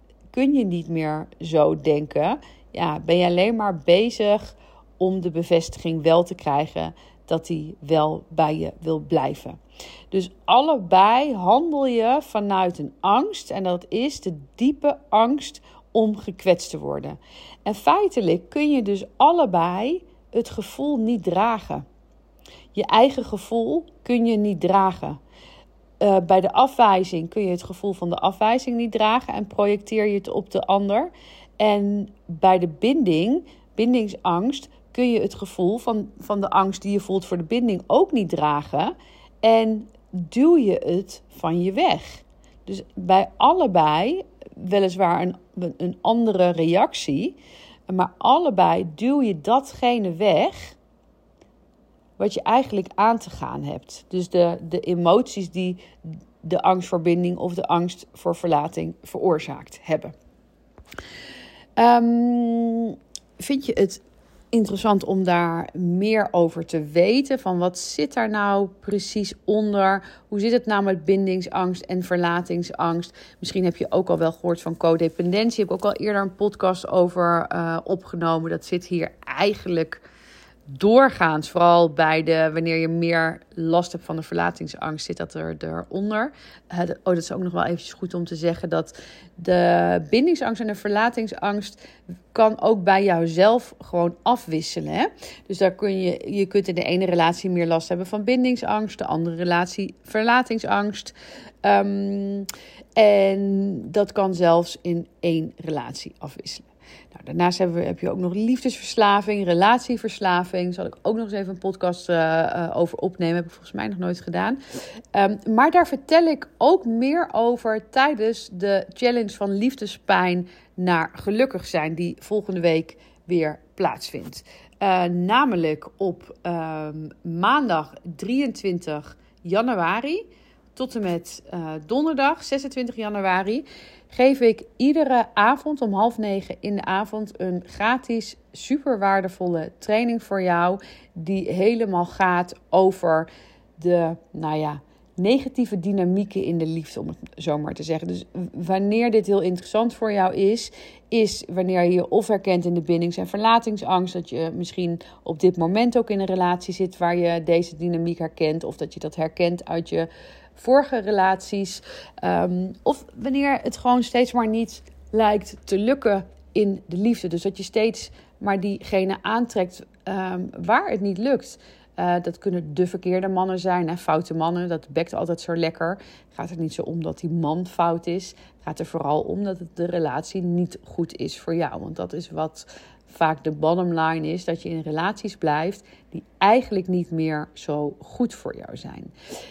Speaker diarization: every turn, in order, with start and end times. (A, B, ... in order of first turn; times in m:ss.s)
0:00.3-0:09.6 A
0:10.1-0:21.9 A
0:22.7-0:25.2 A
0:26.0-0:47.4 A
0:47.9-0:50.8 A
0:52.2-0:55.8 A
0:56.4-1:00.2 A
1:01.8-1:20.0 A
1:20.7-1:31.8 A
1:32.3-1:54.6 A
1:55.1-2:10.2 A
2:10.8-3:09.1 A